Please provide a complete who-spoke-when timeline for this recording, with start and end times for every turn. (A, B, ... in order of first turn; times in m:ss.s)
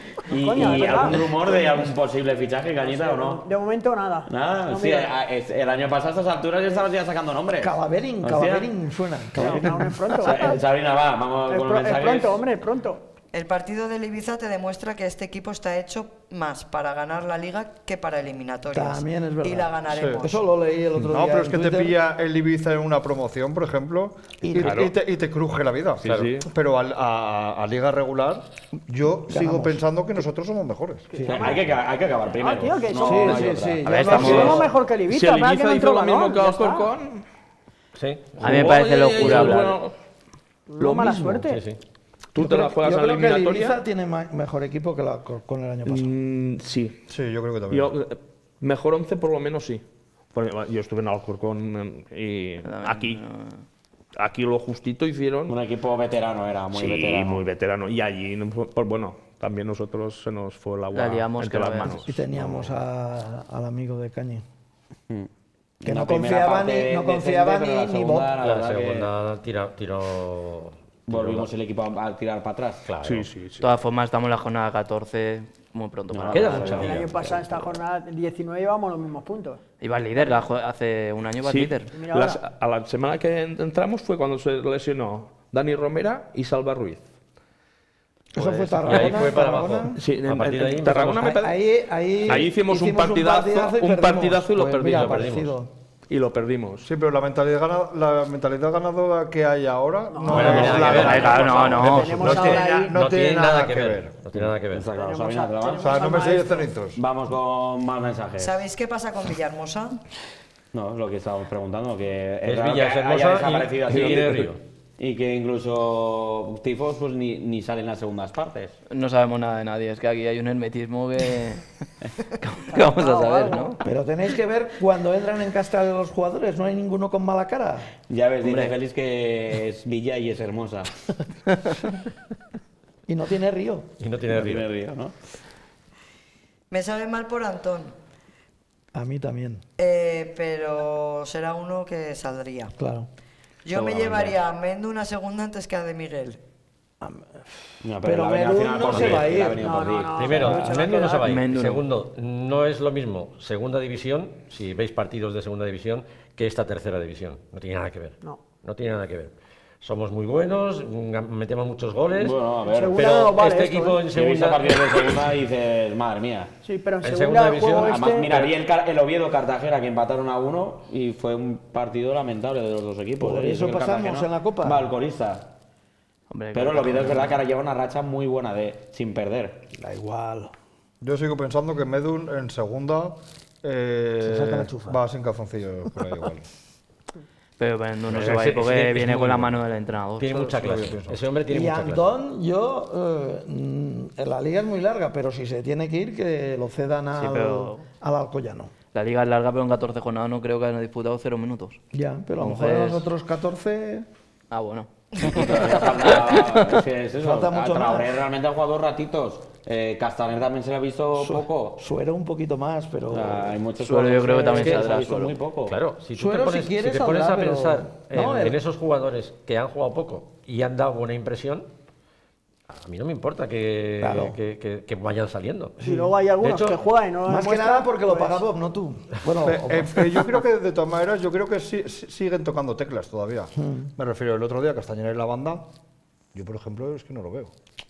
0:00.3-0:03.4 A
0:00.3-0:01.9 B
0:02.8-0:05.2 B
0:04.3-0:08.7 A
0:07.6-0:10.0 C
0:09.4-0:12.4 A
0:09.4-0:10.6 B
0:11.5-0:13.0 B
0:13.3-0:20.4 D
0:18.7-0:22.0 C
0:19.9-0:20.2 E
0:21.1-0:31.1 E
0:24.4-0:24.8 C
0:24.6-0:24.9 F
0:26.0-0:26.4 G
0:26.0-0:26.5 F
0:29.3-0:29.9 C
0:31.1-0:31.8 B
0:31.2-0:34.4 A
0:32.3-0:36.9 B
0:33.0-0:34.7 C
0:33.8-0:34.7 H
0:33.9-0:37.3 F
0:38.0-0:38.7 G
0:38.4-0:40.0 F
0:38.4-0:39.8 H
0:39.2-0:39.6 G
0:40.7-0:41.7 B
0:40.8-0:41.4 F
0:41.5-0:41.8 G
0:42.3-0:43.8 F
0:42.4-0:46.1 C
0:45.9-0:47.0 F
0:47.1-0:48.0 E
0:47.7-0:53.2 F
0:52.6-0:53.6 H
0:54.2-0:55.6 F
0:55.5-0:57.4 A
0:56.7-1:02.7 F
1:00.9-1:02.2 H
1:02.0-1:04.4 C
1:05.8-1:09.1 A
1:05.8-1:08.4 C
1:08.4-1:11.5 G
1:11.1-1:12.9 A
1:12.8-1:13.3 G
1:13.0-1:13.8 F
1:13.6-1:17.8 H
1:16.1-1:17.0 A
1:16.3-1:17.0 G
1:16.8-1:19.6 B
1:19.8-1:22.0 H
1:21.4-1:27.1 F
1:21.9-1:22.4 B
1:28.3-1:30.0 C
1:28.4-1:31.3 G
1:28.4-1:29.2 F
1:30.0-1:31.6 F
1:31.1-1:35.7 C
1:32.2-1:35.2 F
1:34.9-1:35.5 G
1:36.1-1:36.9 F
1:36.8-1:44.1 E
1:40.1-1:43.0 B
1:40.3-1:44.9 G
1:40.4-1:42.6 H
1:40.7-1:41.5 A
1:40.8-1:41.9 F
1:44.3-1:46.3 A
1:44.9-1:46.7 B
1:45.8-1:47.0 E
1:47.0-1:48.6 A
1:48.4-1:50.0 D
1:50.7-1:54.5 A
1:52.4-1:54.6 G
1:53.9-1:54.5 F
1:55.0-1:58.8 A
1:58.9-2:01.7 H
2:02.4-2:03.8 H
2:02.7-2:03.7 B
2:03.1-2:03.6 D
2:03.8-2:07.9 C
2:08.1-2:11.0 A
2:08.4-2:08.7 H
2:13.1-2:13.9 C
2:14.0-2:14.7 G
2:14.3-2:15.2 A
2:16.7-2:18.0 D
2:18.9-2:19.6 C
2:19.8-2:22.7 D
2:22.8-2:23.1 C
2:23.6-2:26.4 D
2:23.7-2:24.4 A
2:27.0-2:29.7 C
2:27.8-2:30.4 A
2:28.9-2:29.2 G
2:29.6-2:31.3 B
2:30.1-2:42.4 G
2:30.4-2:30.8 C
2:31.2-2:31.8 H
2:42.1-2:43.0 A
2:42.6-2:44.1 B
2:42.9-2:45.3 G
2:44.1-2:46.5 A
2:46.6-2:48.5 B
2:47.0-2:48.1 G
2:47.8-2:55.5 A
2:53.2-2:54.9 C
2:56.3-2:57.4 H
2:56.5-2:59.6 A
2:59.8-3:00.5 C
3:01.0-3:06.5 E
3:04.2-3:05.0 C
3:07.6-3:10.6 H
3:08.1-3:09.6 G
3:10.2-3:12.1 G
3:10.6-3:11.2 E
3:11.5-3:18.7 C
3:17.1-3:17.9 H
3:18.9-3:21.8 H
3:21.9-3:24.1 C
3:22.4-3:23.1 H
3:24.5-3:26.8 H
3:25.2-3:31.8 A
3:27.2-3:28.2 C
3:31.2-3:33.6 C
3:33.1-3:35.8 A
3:33.8-3:35.4 H
3:34.5-3:35.1 G
3:35.7-3:41.7 G
3:36.2-3:38.6 C
3:42.7-3:45.8 G
3:44.0-3:44.4 C
3:45.8-3:48.4 B
3:45.8-3:46.1 C
3:46.4-3:46.8 G
3:47.3-3:50.2 C
3:49.4-3:55.6 E
3:53.6-3:53.9 C
3:56.3-3:57.5 E